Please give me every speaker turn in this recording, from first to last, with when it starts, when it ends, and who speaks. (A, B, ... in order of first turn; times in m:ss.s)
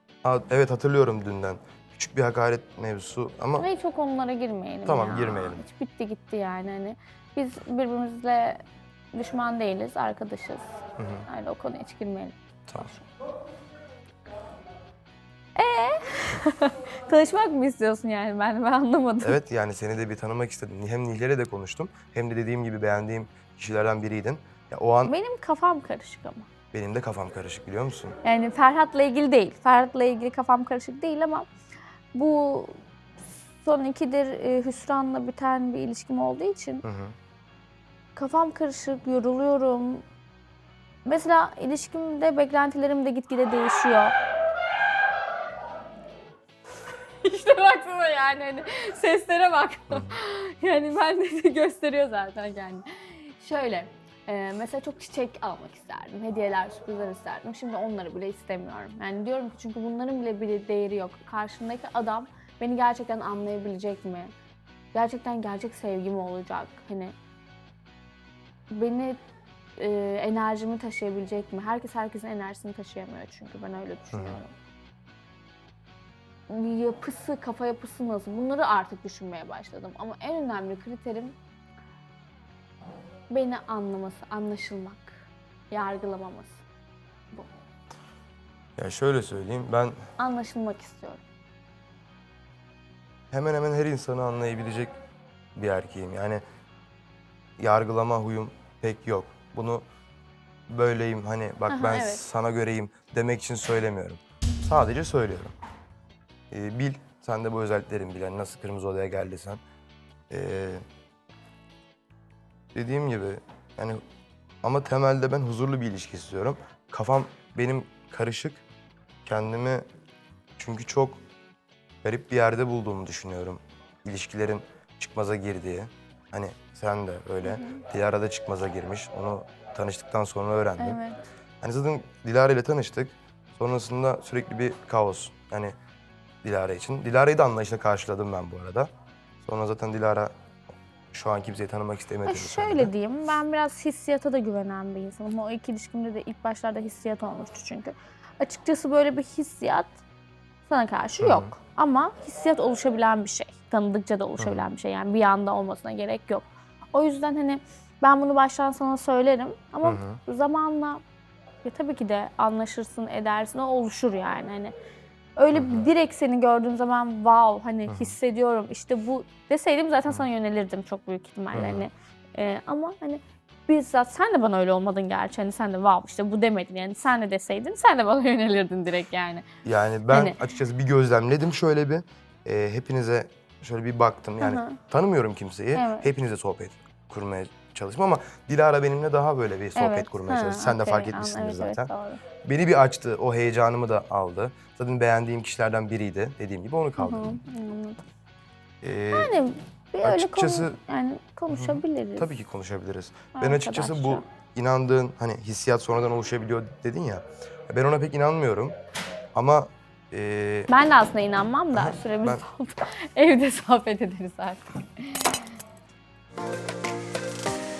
0:00.2-0:03.7 A
0:03.6-0:08.6 B
0:04.9-0:05.6 A
0:09.1-0:10.7 B
0:11.0-0:11.3 A
0:11.3-0:13.1 B
0:15.6-0:19.4 B
0:19.2-0:25.2 A
0:25.1-0:26.5 B
0:26.7-0:28.2 A
0:28.2-0:31.5 B
0:32.1-0:32.8 B
0:33.6-0:36.8 B
0:36.8-0:37.2 A
0:38.2-0:40.0 B
0:41.0-0:44.2 B
0:47.2-1:04.3 B
0:49.9-0:50.2 A
1:04.9-1:07.2 B
1:08.7-1:09.2 B
1:09.8-1:14.5 B
1:14.1-1:14.4 A
1:16.5-1:21.4 B
1:23.3-1:26.6 B
1:28.8-1:30.1 A
1:30.2-1:31.2 B
1:33.3-1:34.9 A
1:35.6-1:36.4 A
1:37.6-1:39.9 A
1:40.7-1:45.5 A
1:41.7-1:42.2 B
1:46.5-1:49.6 A
1:50.3-1:50.8 A
1:52.7-1:54.0 A
1:54.6-1:58.6 A
1:59.2-1:59.8 A
2:00.6-2:01.2 A
2:02.0-2:11.0 A
2:07.4-2:07.8 B
2:10.8-2:11.2 B
2:11.6-2:15.7 A
2:16.4-2:18.9 A
2:19.4-2:20.3 A
2:21.1-2:22.9 A
2:22.3-2:30.0 B
2:30.7-2:41.0 B
2:31.2-2:31.5 A
2:34.4-2:34.7 A
2:39.8-2:40.2 A
2:41.6-2:44.7 B
2:45.4-2:59.4 B
2:45.5-2:45.9 A
2:47.9-2:48.2 A
2:51.5-2:51.9 A
2:59.6-3:11.9 A
3:00.1-3:00.4 B
3:04.4-3:04.8 B
3:05.8-3:06.1 B
3:09.8-3:12.2 B
3:12.4-3:17.4 A
3:17.0-3:18.0 B
3:18.8-3:19.3 A
3:19.1-3:22.3 B
3:20.0-3:20.8 A
3:21.5-3:28.8 A
3:23.4-3:24.3 B
3:29.4-3:30.7 A
3:30.7-3:35.4 B
3:31.7-3:32.4 A